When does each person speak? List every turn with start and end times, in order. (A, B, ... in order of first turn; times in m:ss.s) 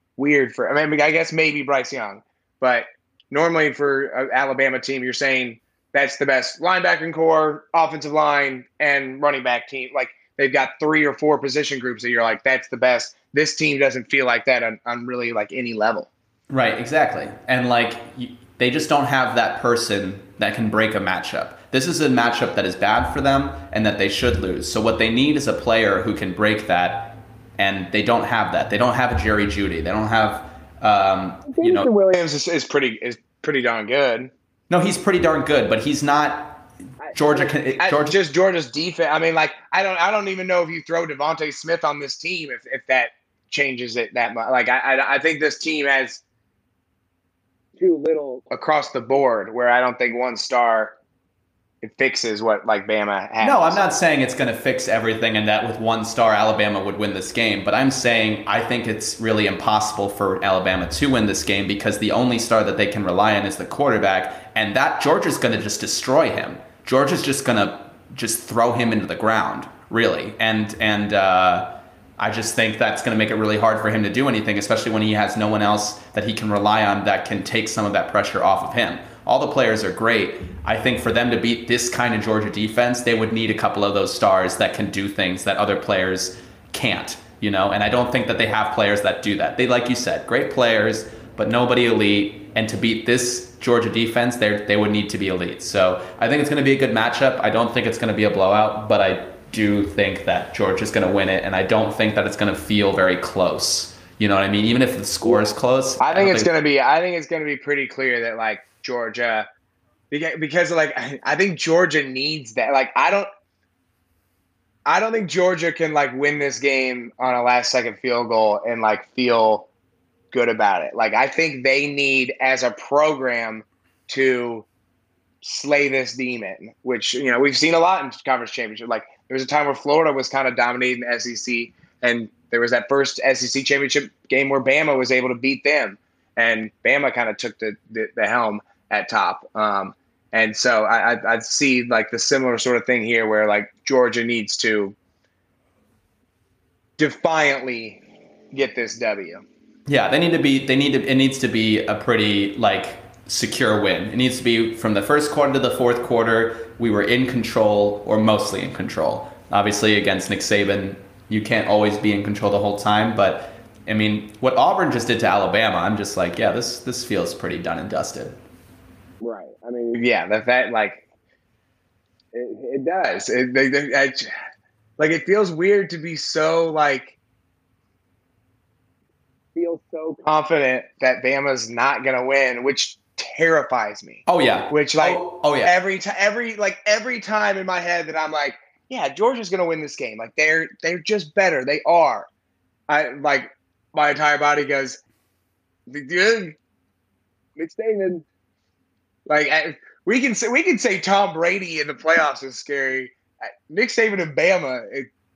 0:00.2-0:16.1 A
0:16.5-0:31.9 B
0:31.5-0:34.3 A
0:34.7-0:38.2 B
0:37.0-0:46.2 A
0:47.8-0:51.0 A
0:51.8-0:53.8 A
0:53.4-1:46.5 B
1:46.0-1:49.5 A
1:50.1-1:53.3 A
1:54.8-1:59.7 A
2:00.3-2:04.7 A
2:05.4-2:24.9 A
2:27.0-2:28.0 A
2:28.5-2:29.4 A
2:29.9-2:48.4 B
2:49.2-2:51.0 A
2:52.3-2:54.3 A
2:55.0-2:57.2 A
2:59.5-3:12.3 A
3:04.2-3:05.7 B
3:12.9-3:15.0 A
3:15.9-3:16.6 A
3:17.6-3:18.2 A
3:19.2-3:23.1 A
3:23.7-3:25.1 A